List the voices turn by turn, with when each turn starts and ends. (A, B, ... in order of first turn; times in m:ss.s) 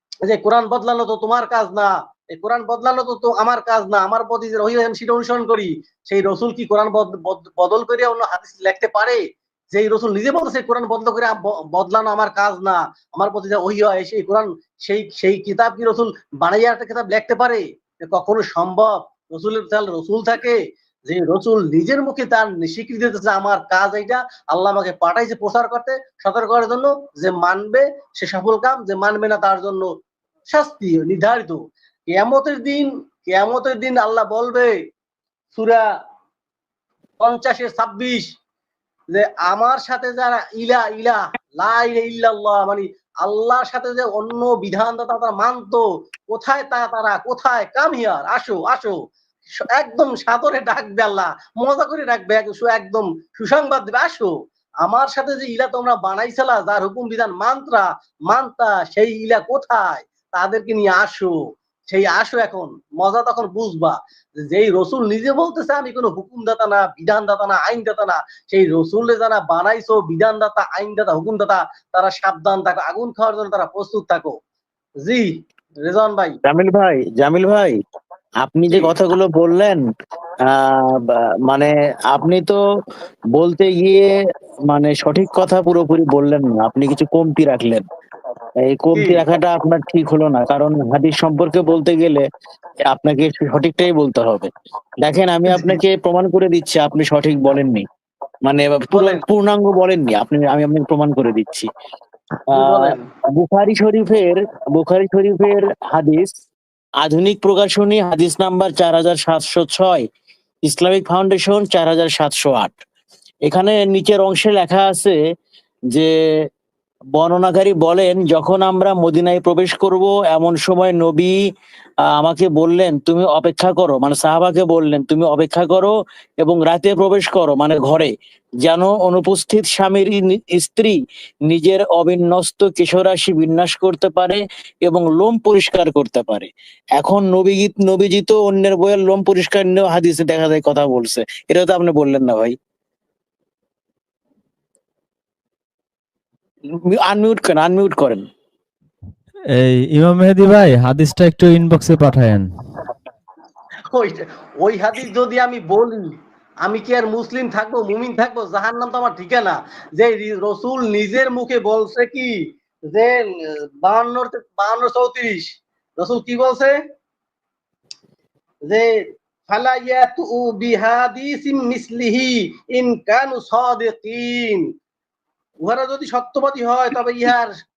0:00.2-0:09.2 A
0:09.7-0:29.9 A
0:30.5-0:31.6 A
0:32.1-0:34.7 A
0:35.5-0:35.8 A
0:37.2-0:38.2 A
0:39.1-0:49.0 A
0:49.7-0:54.3 A
0:54.8-1:01.4 A
1:01.9-1:14.4 A
1:15.8-1:16.3 A
1:16.4-1:17.8 B
1:18.4-1:19.8 B
1:20.5-1:22.6 B
1:23.4-1:24.1 B
1:24.7-1:27.8 B
1:28.6-1:32.2 B
1:29.0-1:29.2 A
1:32.9-1:34.5 B
1:35.0-1:37.8 B
1:35.5-1:35.8 A
1:38.5-1:41.7 B
1:38.9-1:39.2 A
1:42.5-1:43.1 A
1:42.5-1:46.3 B
1:47.0-1:50.0 B
1:50.6-1:52.8 B
1:53.5-1:55.2 B
1:57.2-2:01.4 B
2:02.1-2:22.6 B
2:26.9-2:28.2 B
2:29.6-2:32.5 C
2:33.9-2:36.0 A
2:36.6-2:42.3 A
2:42.9-2:45.5 A
2:46.0-2:46.8 A
2:49.5-2:54.7 A
2:55.6-2:57.5 A